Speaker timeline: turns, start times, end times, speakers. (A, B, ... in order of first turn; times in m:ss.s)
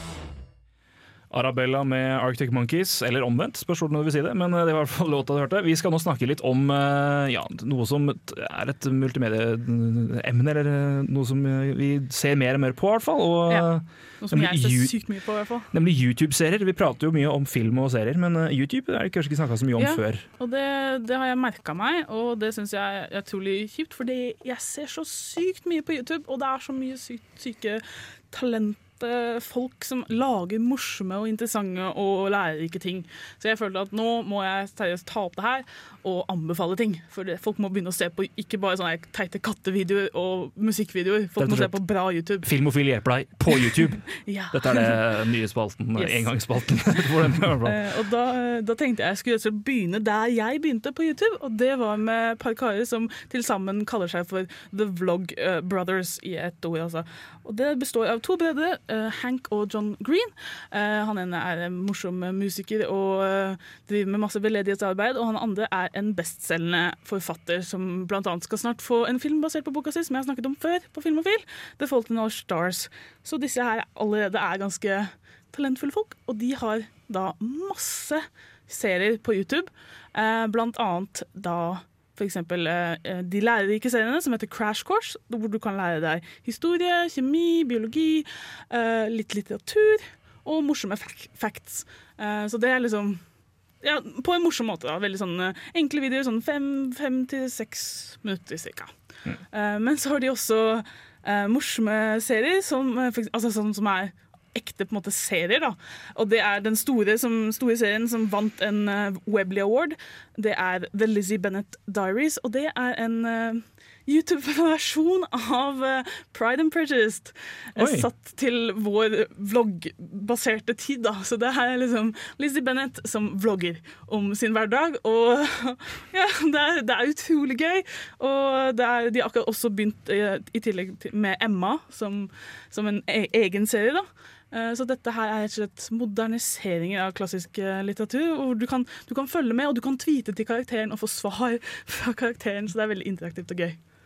0:01.3-0:15.0 A
0:14.2-0:15.7 B
0:15.7-0:20.2 A
0:19.8-0:42.5 B
0:41.4-0:41.8 A
0:42.4-0:47.8 A
0:44.2-0:45.0 B
0:46.0-0:46.3 B
0:47.6-1:33.2 B
1:33.8-1:38.9 B
1:39.5-2:23.8 B
1:57.8-1:58.1 A